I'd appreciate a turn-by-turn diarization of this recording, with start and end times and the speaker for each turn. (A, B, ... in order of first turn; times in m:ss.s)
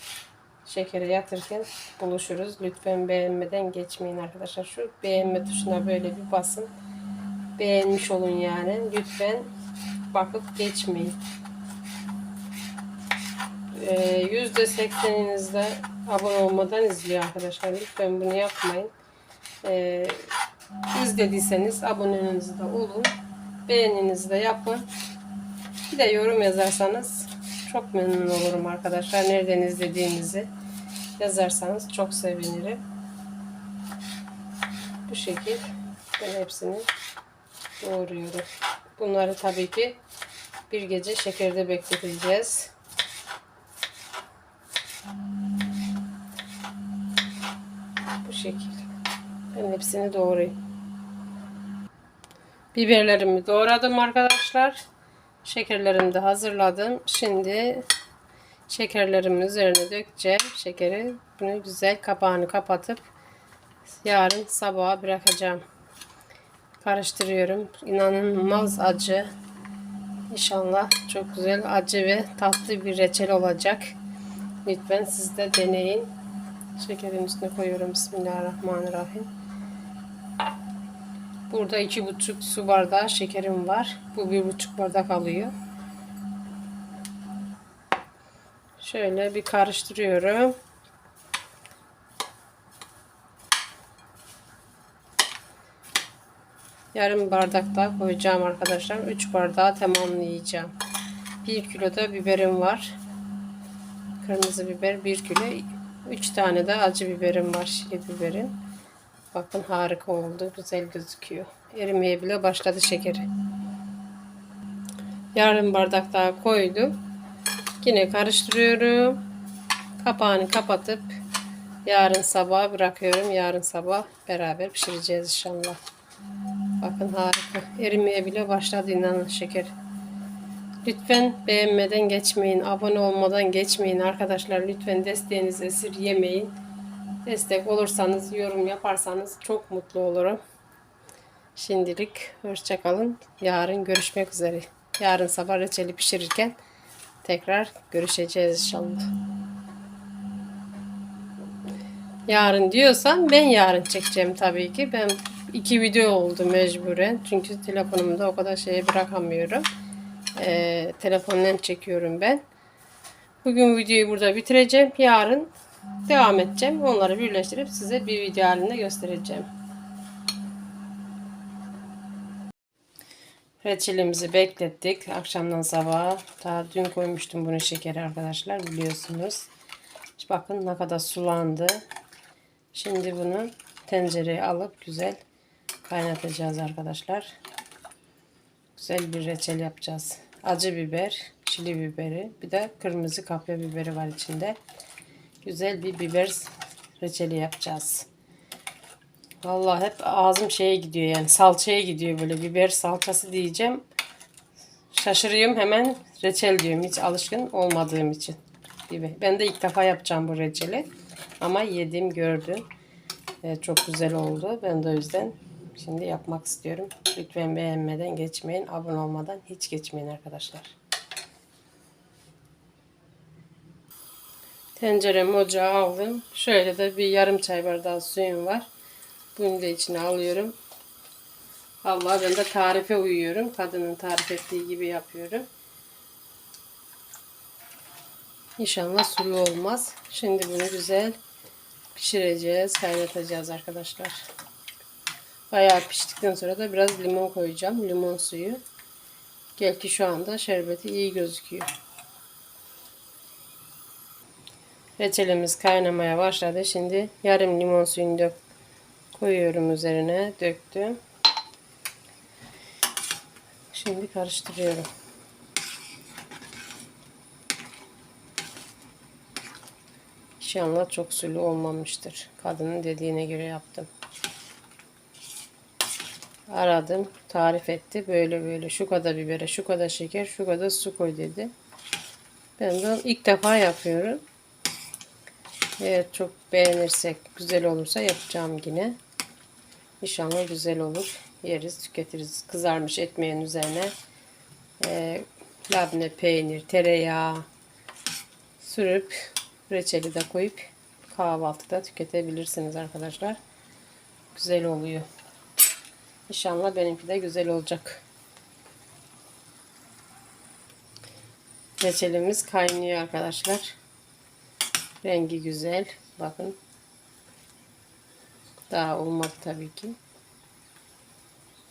0:00.6-0:06.7 A
0:07.6-0:09.5 A
0:10.1-0:11.2 A
0:13.8-0:18.9 A
0:19.6-0:20.3 A
0:20.9-0:23.1 A
0:23.7-0:24.9 A
0:25.9-0:30.5 A
0:31.2-0:32.8 A
0:35.1-0:35.6 A
0:36.2-0:36.9 A
0:37.8-0:38.5 A
0:39.0-0:40.0 A
0:40.7-0:42.7 A
0:48.2-0:48.8 A
0:49.5-0:50.6 A
0:52.7-0:54.8 A
0:55.4-0:57.9 A
0:58.7-1:03.0 A
1:04.0-1:05.6 A
1:06.8-1:09.3 A
1:10.3-1:14.0 A
1:14.6-1:16.1 A
1:16.8-1:19.3 A
1:21.5-1:25.5 A
1:28.8-1:30.6 A
1:36.9-1:40.7 A
1:41.4-1:43.0 A
1:44.2-1:48.5 A
1:49.3-1:53.3 A
1:55.4-1:57.0 A
1:57.8-1:59.2 A
2:00.0-2:01.2 A
2:01.8-2:05.8 A
2:06.8-2:09.7 A
2:10.8-2:16.5 A
2:17.2-2:20.4 A
2:21.6-2:26.6 A
2:27.2-2:29.1 A
2:32.3-2:39.7 A
2:40.4-2:42.4 A
2:43.4-2:45.5 A
2:46.1-2:49.5 A
2:53.6-2:59.5 A
3:00.2-3:01.8 A
3:02.7-3:05.2 A
3:05.9-3:07.3 A
3:08.8-3:14.6 A
3:15.4-3:18.1 A
3:19.4-3:23.8 A
3:24.9-3:30.9 A
3:31.4-3:32.7 A
3:33.4-3:40.8 A
3:44.8-3:48.7 A
3:49.4-3:50.6 A
3:51.8-3:55.5 A
3:58.6-4:01.2 A
4:02.0-4:04.2 A
4:05.5-4:08.6 A
4:09.6-4:11.7 A
4:15.0-4:18.4 A
4:19.1-4:21.0 A
4:23.7-4:24.9 A
4:30.4-4:33.9 A
4:36.5-4:41.5 A
4:42.6-4:44.2 A
4:45.8-4:49.0 A
4:50.0-4:53.9 A
4:54.8-4:57.5 A
4:58.6-5:03.4 A
5:04.3-5:05.1 A
5:06.3-5:08.0 A
5:11.8-5:13.8 A
5:15.0-5:16.6 A
5:18.7-5:20.0 A